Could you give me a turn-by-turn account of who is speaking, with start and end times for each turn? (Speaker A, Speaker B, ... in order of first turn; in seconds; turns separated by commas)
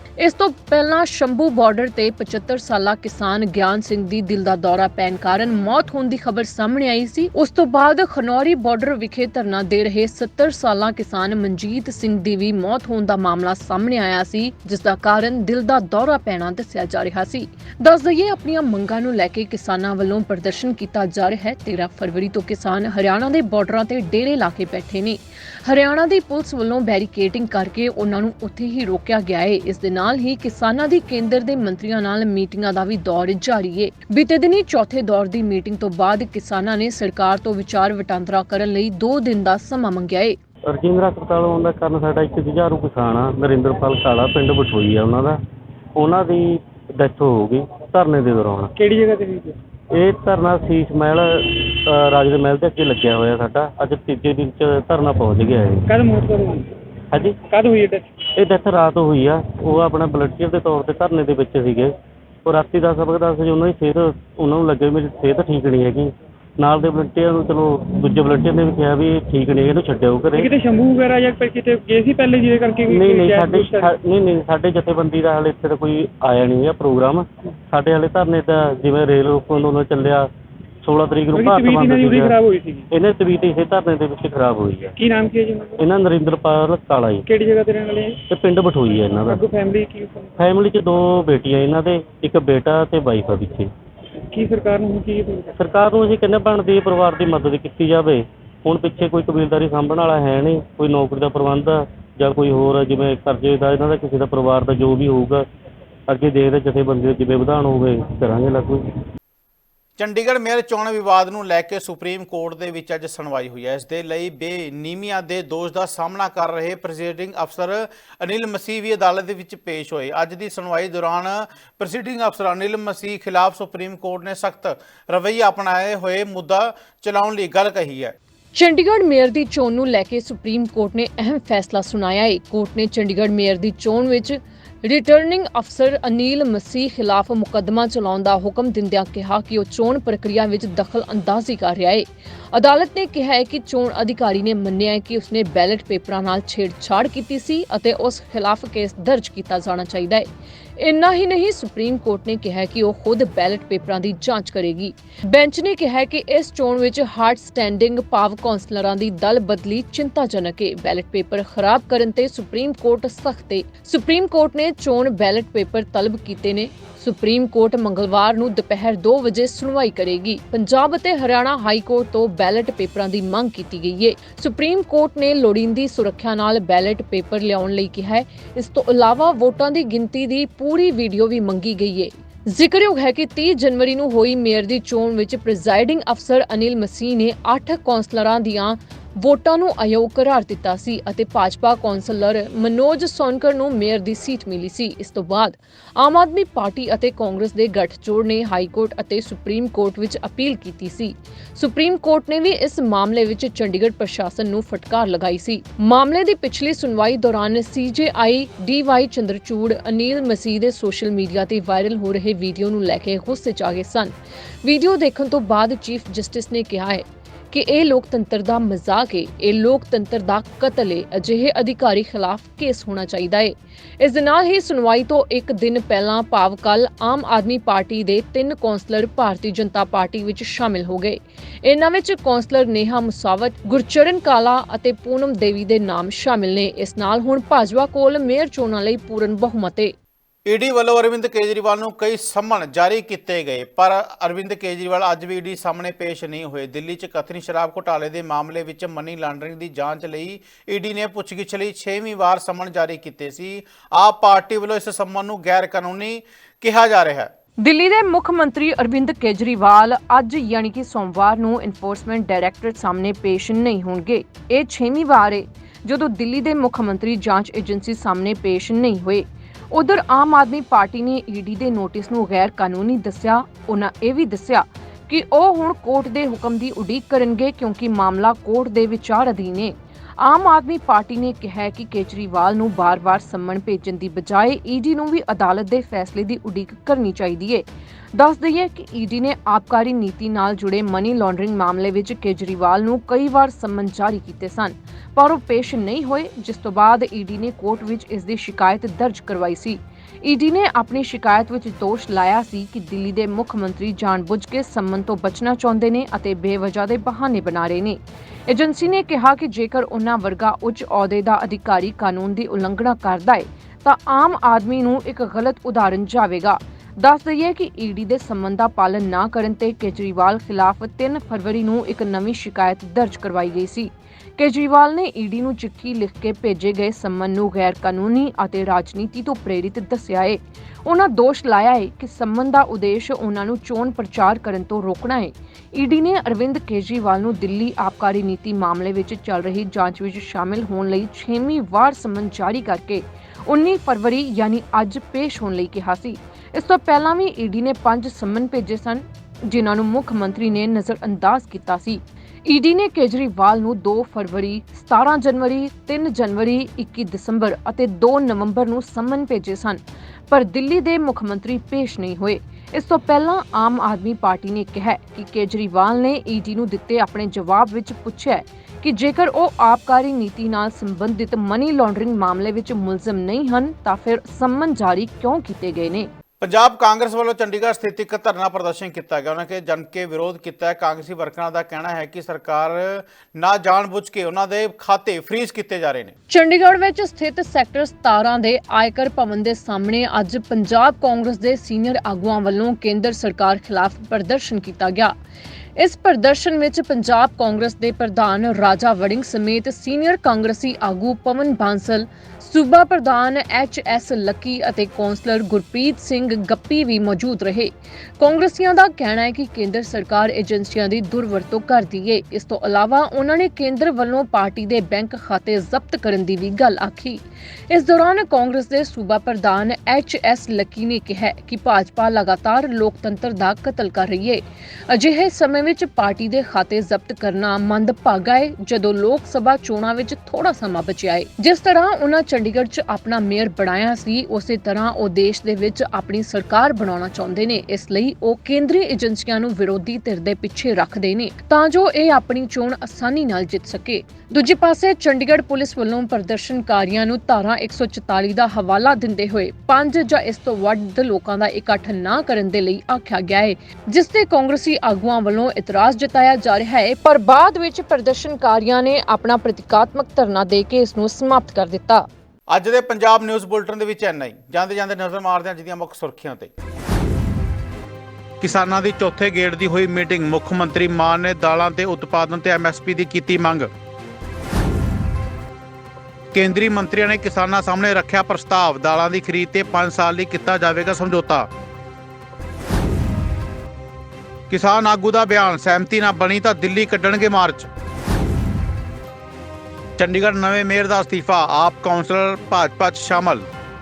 Speaker A: 0.2-40.4, Speaker B: 40.6-45.4, Speaker B: 46.0-48.7, Speaker C: 48.8-49.6, Speaker B: 49.9-55.8, Speaker C: 55.9-56.7, Speaker C: 57.4-58.1, Speaker B: 58.4-61.9, Speaker B: 62.5-70.5, Speaker C: 70.3-73.9, Speaker B: 72.9-80.3, Speaker B: 80.8-82.4, Speaker C: 81.3-82.9, Speaker B: 82.9-84.9, Speaker C: 85.0-85.8, Speaker B: 85.8-87.2, Speaker C: 87.2-88.2, Speaker B: 88.3-89.5, Speaker C: 89.2-90.5, Speaker B: 90.4-93.7, Speaker C: 94.3-95.6, Speaker B: 95.6-105.5, Speaker B: 106.1-108.8, Speaker D: 110.0-128.1, Speaker A: 128.5-239.9, Speaker D: 240.5-257.3, Speaker A: 257.6-376.1, Speaker D: 376.4-386.1, Speaker A: 386.3-395.1, Speaker A: 395.8-462.1, Speaker D: 462.5-466.5, Speaker D: 468.4-473.7, Speaker D: 476.3-481.5, Speaker D: 484.5-487.7, Speaker D: 490.0-493.5